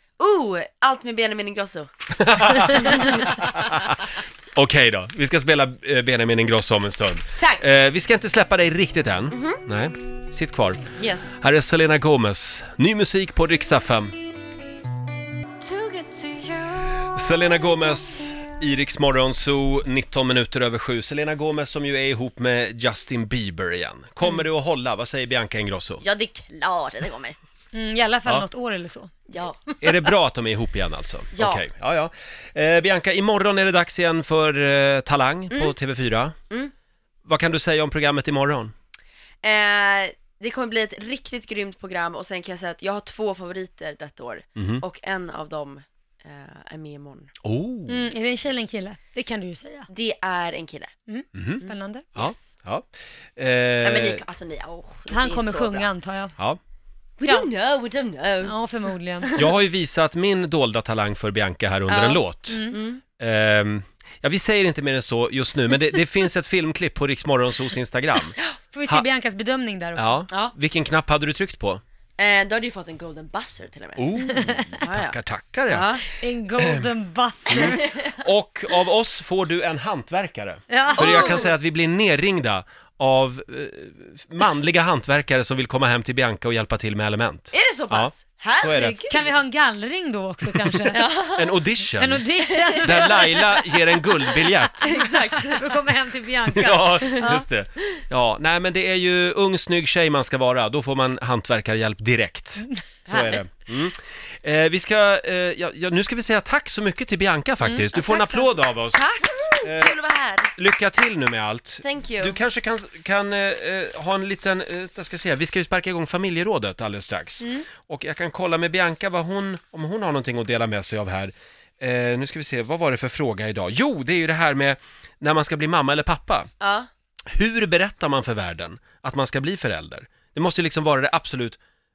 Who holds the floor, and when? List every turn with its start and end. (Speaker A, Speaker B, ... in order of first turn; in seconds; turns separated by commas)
Speaker A: 0.2-1.9, Speaker B: 2.2-4.0, Speaker A: 2.5-3.2, Speaker B: 4.5-10.8, Speaker A: 7.4-7.6, Speaker A: 9.3-9.6, Speaker A: 11.0-11.3, Speaker B: 11.4-14.1, Speaker A: 15.6-16.9, Speaker B: 17.0-26.0, Speaker A: 26.0-27.4, Speaker C: 27.7-29.3, Speaker A: 29.3-29.6, Speaker B: 29.8-36.3, Speaker A: 31.3-31.6, Speaker B: 37.2-38.7, Speaker A: 39.4-47.3, Speaker B: 44.6-44.8, Speaker B: 47.4-48.1, Speaker C: 47.9-49.9, Speaker A: 49.9-50.9, Speaker C: 51.1-52.1, Speaker B: 51.3-51.6, Speaker A: 51.6-52.4, Speaker B: 52.1-54.2, Speaker A: 53.8-55.9, Speaker C: 55.1-56.4, Speaker A: 57.2-58.5, Speaker C: 58.4-59.3, Speaker A: 59.2-59.5, Speaker B: 59.4-62.6, Speaker A: 61.9-63.0, Speaker C: 62.5-62.8, Speaker B: 63.2-68.3, Speaker C: 68.7-70.2, Speaker B: 70.0-71.8, Speaker A: 72.2-74.1, Speaker B: 74.0-75.9, Speaker A: 74.7-75.2, Speaker A: 75.7-76.2, Speaker C: 76.1-77.9, Speaker B: 77.5-89.0, Speaker A: 77.5-78.2, Speaker C: 80.7-81.4, Speaker A: 80.9-81.5, Speaker A: 87.5-89.2, Speaker C: 89.1-91.0, Speaker B: 90.5-92.2, Speaker A: 90.9-91.7, Speaker C: 92.0-93.7, Speaker A: 92.5-93.4, Speaker B: 92.8-94.9, Speaker C: 94.4-97.5, Speaker A: 94.8-95.9, Speaker B: 96.5-109.0, Speaker A: 97.0-97.4, Speaker A: 103.1-103.5, Speaker C: 107.9-108.6, Speaker A: 108.9-110.5, Speaker B: 109.6-109.9, Speaker B: 110.5-126.5, Speaker A: 111.8-112.4, Speaker A: 126.6-126.9, Speaker B: 127.3-131.6